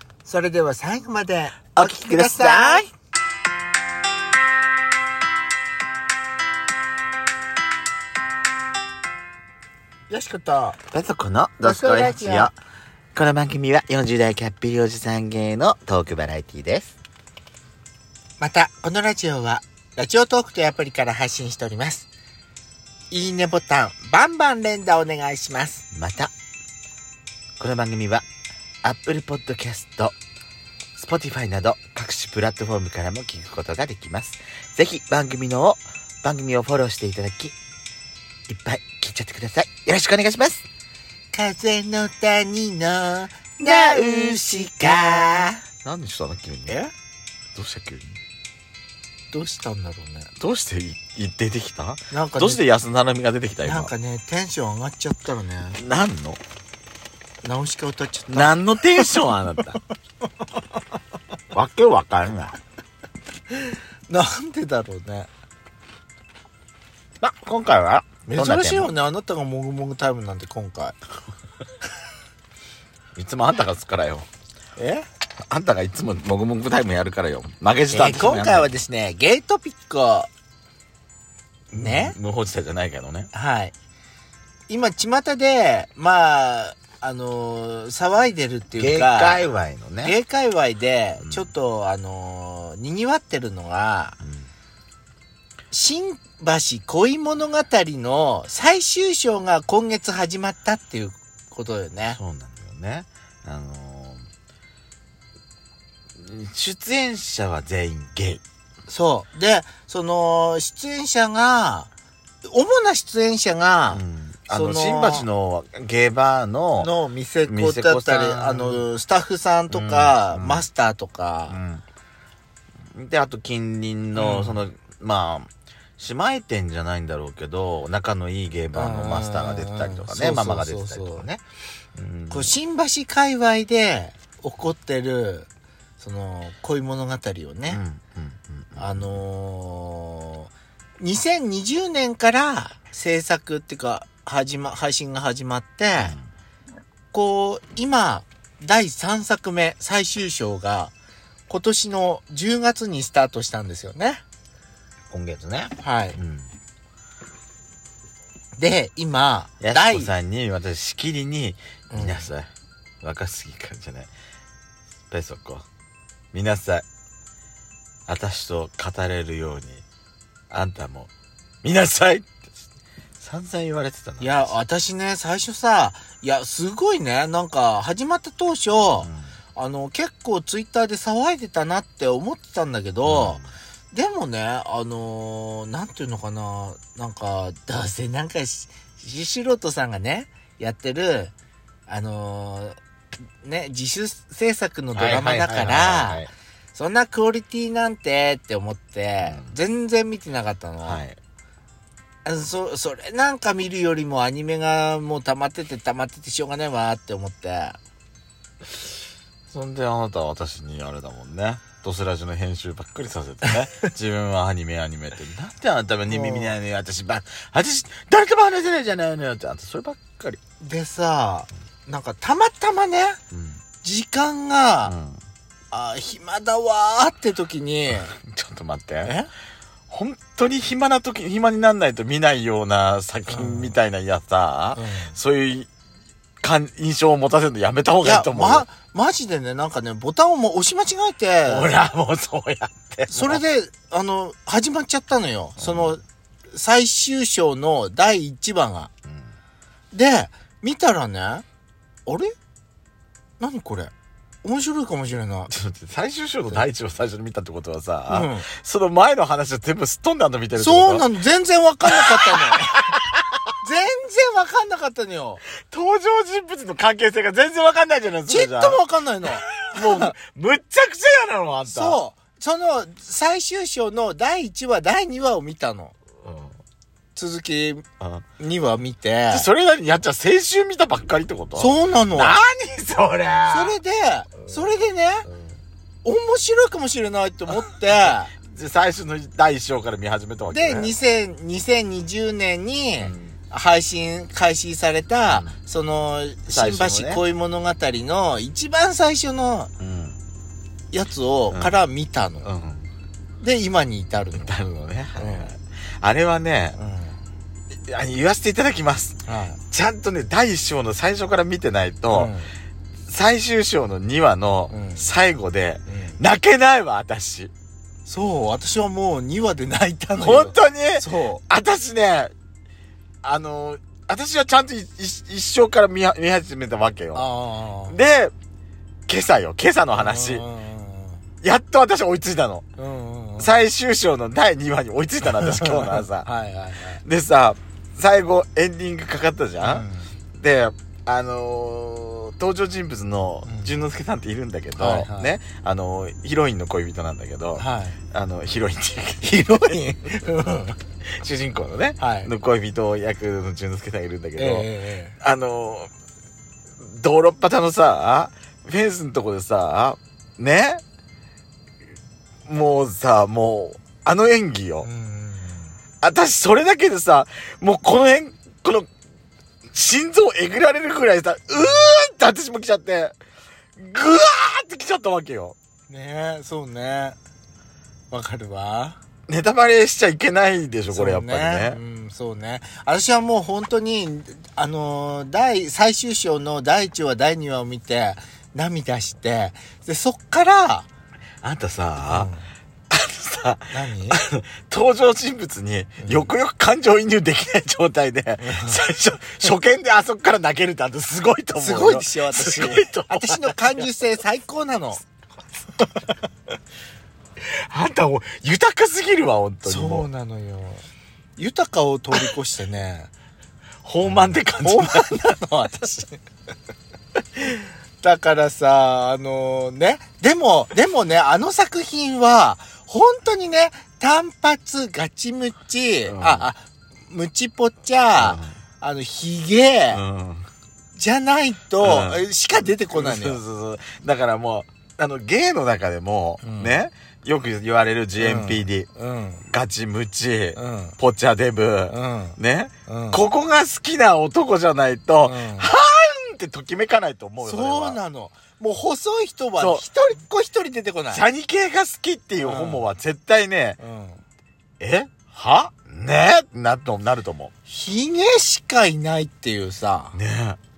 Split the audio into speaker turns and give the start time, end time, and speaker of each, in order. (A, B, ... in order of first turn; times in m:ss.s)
0:00.2-0:02.8 A
0:01.7-0:02.9 B
0:10.1-0:10.8 A
0:10.9-0:12.5 B
0:11.6-0:12.5 A
0:13.1-0:17.0 B
0:18.4-0:22.1 A
0:23.1-0:25.8 A
0:25.9-0:26.3 B
0:27.6-0:28.2 B
0:28.8-0:30.1 B
0:31.0-0:37.5 B
0:38.5-0:40.6 B
0:41.3-0:45.6 A
0:43.6-0:46.8 B
0:46.7-0:46.9 A
0:47.5-0:48.1 B
0:49.3-0:50.3 A
0:50.4-0:53.9 B
0:52.1-0:52.6 A
0:53.6-0:55.8 A
0:55.8-0:56.4 B
0:57.4-0:59.8 A
0:58.3-0:59.8 B
1:01.5-1:02.5 B
1:04.1-1:05.3 A
1:07.2-1:08.9 B
1:08.3-1:11.0 A
1:13.1-1:14.2 B
1:14.8-1:15.0 A
1:15.5-1:18.7 B
1:17.9-1:20.3 A
1:21.7-1:23.3 B
1:21.8-1:22.1 A
1:23.3-1:23.7 A
1:24.7-1:29.4 A
1:28.8-1:30.1 B
1:30.0-1:34.2 A
1:31.2-1:31.5 B
1:34.2-1:34.5 B
1:35.7-1:42.2 A
1:42.2-1:44.3 B
1:46.2-1:48.4 B
1:48.9-1:51.9 A
1:52.4-1:55.3 A
1:53.9-1:56.9 B
1:56.8-2:01.6 A
1:57.4-1:58.8 B
1:59.7-2:00.6 B
2:01.5-2:01.8 B
2:02.9-2:11.3 B
2:04.2-2:04.6 A
2:08.7-2:11.4 A
2:11.9-2:12.5 B
2:12.3-2:15.5 A
2:16.0-2:17.8 A
2:17.7-2:19.1 B
2:18.8-2:26.2 A
2:26.0-2:26.2 B
2:27.1-2:30.9 A
2:31.5-2:34.2 A
2:35.1-2:36.5 B
2:35.8-2:36.2 A
2:38.6-2:40.1 A
2:39.6-2:42.5 B
2:41.9-2:42.3 A
2:43.0-2:44.1 B
2:45.1-2:45.6 B
2:46.3-2:46.8 B
2:48.1-2:49.8 B
2:50.5-2:51.1 B
2:51.6-2:52.5 B
2:53.2-2:54.6 B
2:54.2-3:11.3 A
2:59.0-2:59.3 B
3:03.0-3:03.5 B
3:11.9-3:12.8 A
3:13.4-3:21.0 A
3:14.9-3:16.3 B
3:19.2-3:19.5 B
3:20.8-3:21.2 B
3:22.2-3:27.8 A
3:29.5-3:40.4 B
3:36.1-3:36.6 A
3:40.6-3:43.2 A
3:43.3-3:43.6 B
3:43.8-3:44.9 A
3:44.8-3:45.2 B
3:45.7-3:48.1 A
3:48.1-3:49.1 B
3:49.0-3:49.3 A
3:49.9-3:55.7 B
3:53.3-3:53.8 A
3:54.7-3:55.2 A
3:56.4-3:58.6 B
3:58.0-4:01.7 A
4:01.5-4:03.4 B
4:03.1-4:08.9 A
4:05.6-4:05.9 B
4:09.9-4:11.4 A
4:12.0-4:12.3 A
4:13.4-4:13.9 A
4:14.4-4:15.5 A
4:15.5-4:21.0 B
4:18.1-4:18.4 A
4:20.6-4:22.7 A
4:21.9-4:23.2 B
4:23.6-4:25.4 A
4:25.6-4:28.8 B
4:28.3-4:30.1 A
4:29.4-4:32.0 B
4:31.6-4:35.9 A
4:36.2-4:36.5 B
4:37.1-4:37.8 A
4:38.4-4:39.5 A
4:39.3-4:43.8 B
4:41.6-4:42.4 A
4:43.5-4:45.3 A
4:46.0-4:48.3 A
4:47.5-4:50.9 B
4:50.5-4:59.7 A
4:53.0-4:53.4 B
4:55.3-4:55.5 B
4:56.5-4:57.2 B
4:59.8-5:00.2 B
5:00.9-5:02.5 A
5:01.5-5:01.8 B
5:02.4-5:02.9 B
5:03.4-5:04.5 A
5:04.3-5:06.8 B
5:05.2-5:05.5 A
5:06.8-5:07.2 A
5:07.7-5:09.2 B
5:09.2-5:09.6 A
5:09.7-5:12.3 B
5:12.1-5:12.5 A
5:13.1-5:17.5 B
5:14.7-5:15.1 A
5:15.9-5:16.2 A
5:18.1-5:21.4 A
5:20.2-5:22.3 B
5:23.2-5:27.3 B
5:27.1-5:28.0 A
5:27.9-5:28.3 B
5:29.1-5:30.4 B
5:29.9-5:31.2 A
5:31.4-5:32.6 B
5:32.8-5:33.5 A
5:33.4-5:36.3 B
5:35.2-5:37.0 A
5:37.0-5:49.6 B
5:39.6-5:40.1 A
5:43.4-5:43.7 A
5:44.8-5:45.3 A
5:47.6-5:48.0 A
5:49.2-5:50.8 A
5:51.2-5:54.7 B
5:52.0-5:52.3 A
5:54.4-5:55.1 A
5:55.2-5:55.9 B
5:56.8-6:00.8 B
6:02.5-6:04.9 B
6:04.8-6:05.8 A
6:06.0-6:08.9 B
6:09.7-6:13.1 B
6:11.5-6:11.9 A
6:13.8-6:15.6 B
6:15.9-6:17.2 A
6:18.1-6:19.0 A
6:19.3-6:21.8 B
6:20.9-6:30.9 A
6:31.4-6:32.3 B
6:32.0-6:32.5 A
6:32.9-6:43.8 B
6:33.7-6:34.2 A
6:36.0-6:36.3 A
6:38.4-6:38.8 A
6:41.5-6:45.0 A
6:47.4-6:50.0 B
6:49.6-6:50.8 A
6:51.4-6:53.1 A
6:53.8-6:55.1 B
6:54.0-6:56.2 A
6:57.5-7:10.0 A
7:06.1-7:06.5 B
7:08.2-7:08.5 B
7:09.9-7:10.5 B
7:11.0-7:13.4 A
7:11.8-7:12.2 B
7:12.9-7:18.9 B
7:16.4-7:16.8 A
7:18.2-7:19.4 A
7:19.5-7:28.0 B
7:20.6-7:21.0 A
7:21.9-7:23.2 A
7:25.2-7:25.7 A
7:27.4-7:31.2 A
7:29.6-7:29.8 B
7:31.1-7:33.8 B
7:32.4-7:32.9 A
7:33.8-7:34.2 A
7:34.8-7:37.5 B
7:37.7-7:40.1 A
7:40.1-7:40.6 B